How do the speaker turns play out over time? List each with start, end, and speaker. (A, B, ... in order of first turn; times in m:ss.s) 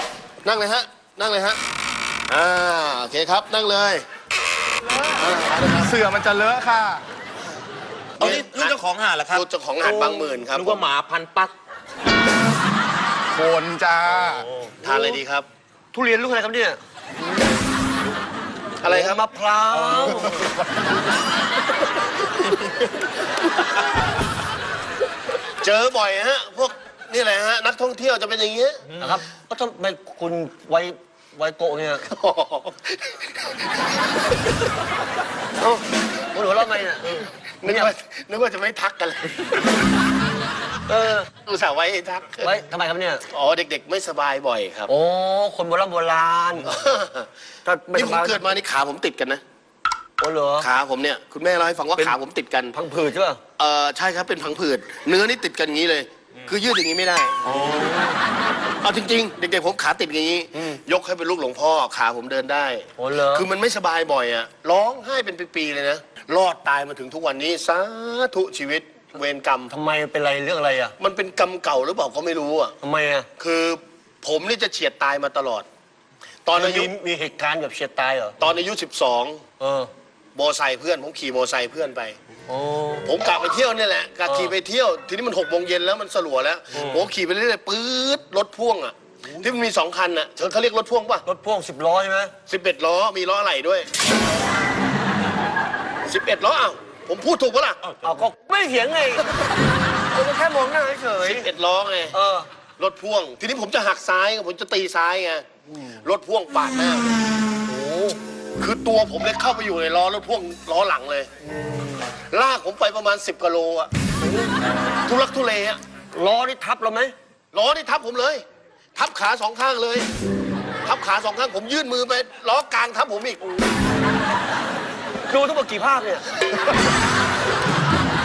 0:00.4-0:01.6 A
0:02.3-0:04.0 A
0:05.1-0:06.0 A
0:05.8-0:07.0 B
0:08.2-0:10.9 A
0:08.2-0:11.5 C
0:13.3-0:14.5 B
0:14.3-0:14.7 C
0:14.8-0:15.5 A
0:15.9-0:16.8 D
0:18.8-0:19.2 A
0:18.8-0:20.5 D
0:25.6-0:28.9 A
0:29.0-0:32.0 D
0:32.0-0:33.6 A
0:35.6-0:37.9 D
0:37.6-0:39.6 A
0:40.9-0:41.3 D
0:41.4-0:42.5 A
0:42.4-0:43.2 D
0:43.3-0:44.9 A
0:44.9-0:46.8 D
0:46.6-0:47.3 A
0:47.6-0:48.4 D
0:47.9-0:49.4 A
0:50.2-0:50.7 D
0:50.6-0:52.8 A
0:52.7-0:53.4 D
0:53.6-0:57.6 A
0:57.5-0:58.2 D
0:58.8-1:09.7 A
1:03.0-1:03.5 D
1:09.7-1:11.0 D
1:11.0-1:12.8 A
1:12.8-1:13.3 D
1:13.4-1:15.7 A
1:16.4-1:16.9 A
1:16.6-1:18.4 D
1:18.4-1:19.4 A
1:19.6-1:19.9 D
1:20.4-1:22.2 A
1:22.5-1:23.1 D
1:23.0-1:31.2 A
1:24.3-1:24.5 D
1:26.7-1:27.1 D
1:31.3-1:32.3 D
1:32.5-1:33.9 A
1:36.1-1:37.8 A
1:38.0-1:39.4 D
1:40.1-1:41.5 D
1:41.2-1:42.2 A
1:42.1-1:42.5 D
1:42.8-1:47.2 A
1:47.7-1:48.2 D
1:48.6-1:51.3 A
1:51.6-1:52.0 D
1:52.3-1:53.9 A
1:54.2-1:54.5 D
1:55.0-1:55.8 A
1:56.1-1:57.2 D
1:57.5-1:58.4 A
1:59.0-2:00.1 A
2:00.8-2:03.5 A
2:05.3-2:06.2 D